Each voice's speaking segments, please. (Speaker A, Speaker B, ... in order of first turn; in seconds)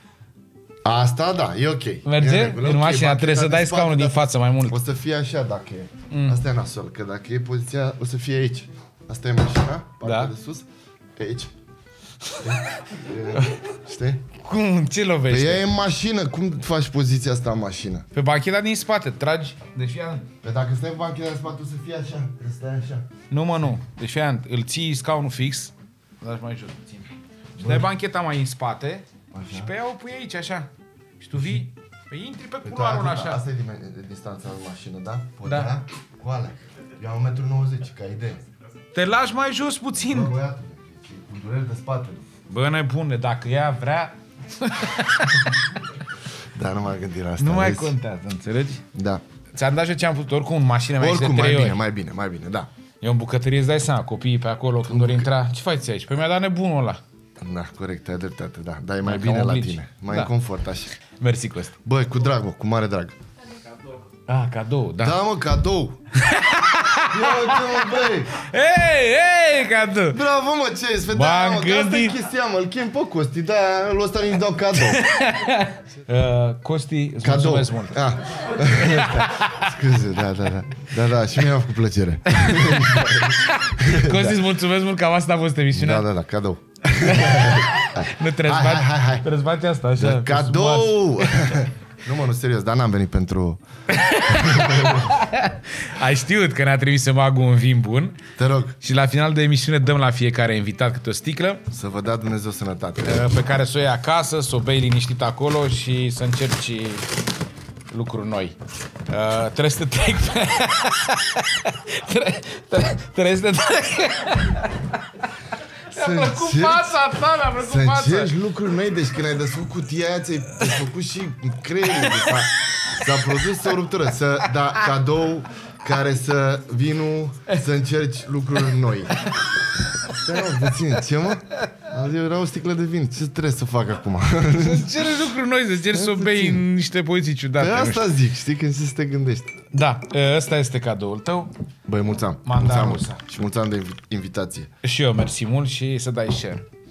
Speaker A: 0.8-11.5, 12.4-14.2, 15.3-18.1, 20.4-23.1, 27.6-27.9, 29.3-29.7, 32.6-38.5, 40.0-42.3, 46.5-47.9, 48.9-49.2, 51.0-52.7, 54.8-55.3, 57.4-60.9, 61.8-63.2, 65.0-66.0, 67.0-68.3, 70.1-75.1, 77.2-84.4, 85.7-89.3, 90.0-93.6, 94.3-95.2, 98.4-98.8, 101.7-103.3, 115.9-117.0, 117.6-129.2, 130.0-135.1, 135.9-136.7, 137.6-139.5, 141.9-144.7
Speaker B: 2.0-4.8, 6.1-6.4, 10.0-10.3, 12.3-12.8, 14.4-15.6, 18.1-20.3, 23.3-30.7, 31.2-33.4, 35.5-35.7, 39.0-40.3, 42.5-45.8, 47.4-48.8, 49.5-51.8, 53.0-57.0, 59.0-60.3, 61.2-61.8, 64.3-65.2, 66.2-70.2, 71.1-72.2, 74.8-78.0, 78.6-79.7, 82.3-86.1, 86.9-91.6, 93.9-98.2, 98.8-101.6, 103.0-107.1, 107.9-108.6, 109.1-115.3, 115.9-118.4, 122.0-123.5, 129.2-130.7, 134.6-138.1, 139.7-141.5, 142.4-143.2, 144.8-146.7